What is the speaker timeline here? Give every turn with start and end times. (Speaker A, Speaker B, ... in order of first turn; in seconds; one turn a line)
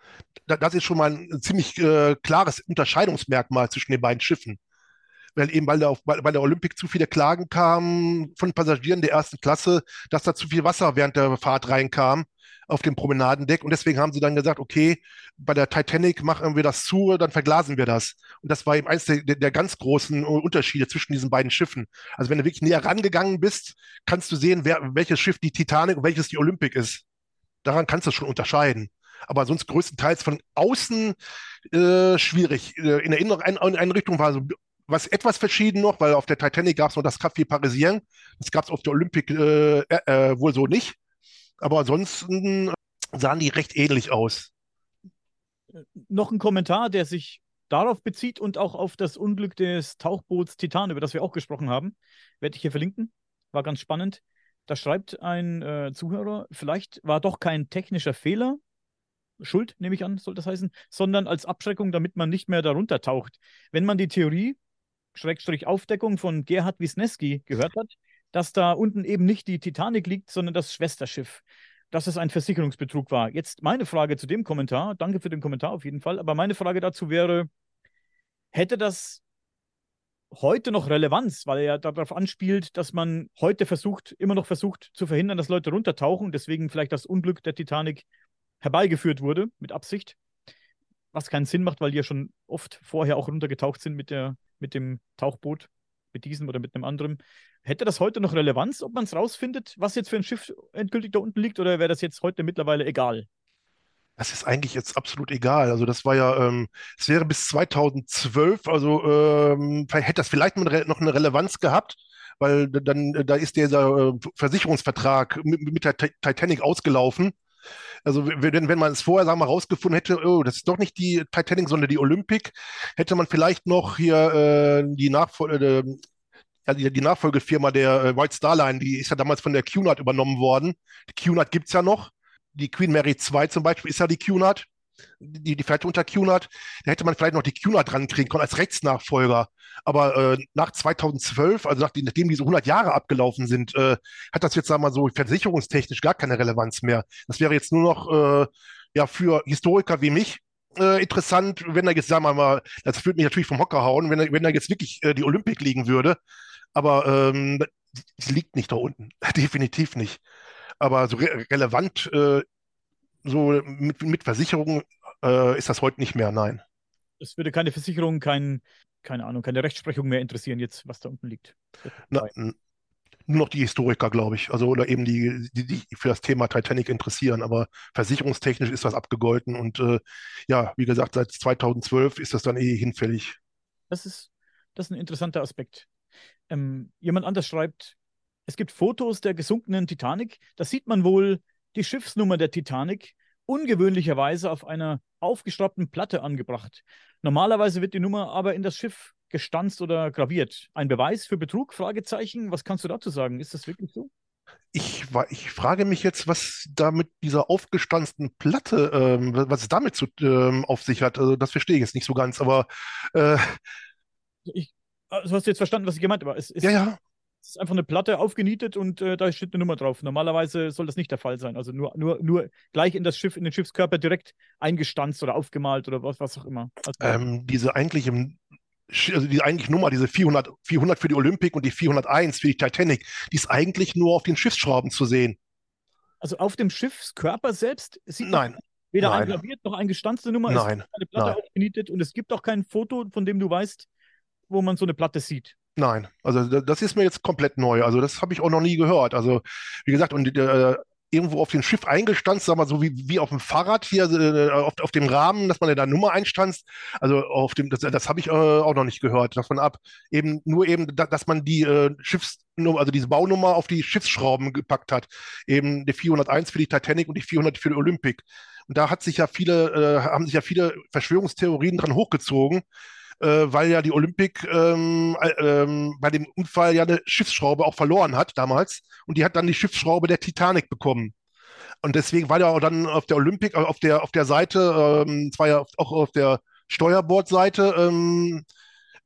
Speaker A: 0.5-4.6
Speaker A: 5.3-27.0
Speaker A: 27.6-31.1
Speaker A: 31.7-41.0
Speaker A: 41.6-44.5
Speaker B: 45.7-58.6
Speaker B: 59.4-64.6
Speaker B: 65.1-77.5
Speaker B: 78.5-79.2
Speaker B: 80.3-88.0
Speaker B: 88.6-90.2
Speaker B: 91.1-103.3
Speaker A: 104.2-117.3
Speaker A: 118.0-126.0
Speaker A: 126.7-134.7
Speaker A: 135.2-156.2
Speaker A: 156.7-160.2
Speaker A: 160.8-162.4
Speaker A: 163.2-166.6
Speaker B: 167.2-172.3
Speaker A: 172.1-172.6
Speaker A: 173.3-183.4
Speaker B: 183.9-185.9
Speaker B: 186.5-187.9
Speaker B: 188.5-204.1
Speaker A: 204.7-213.6
Speaker B: 214.4-216.8
Speaker A: 216.6-217.0
Speaker B: 217.4-227.2
Speaker A: 227.0-235.4
Speaker B: 236.2-243.9
Speaker A: 238.2-239.4
Speaker A: 240.5-241.4
Speaker B: 244.5-245.5
Speaker A: 245.8-272.6
Speaker A: 273.2-281.1
Speaker A: 281.8-288.4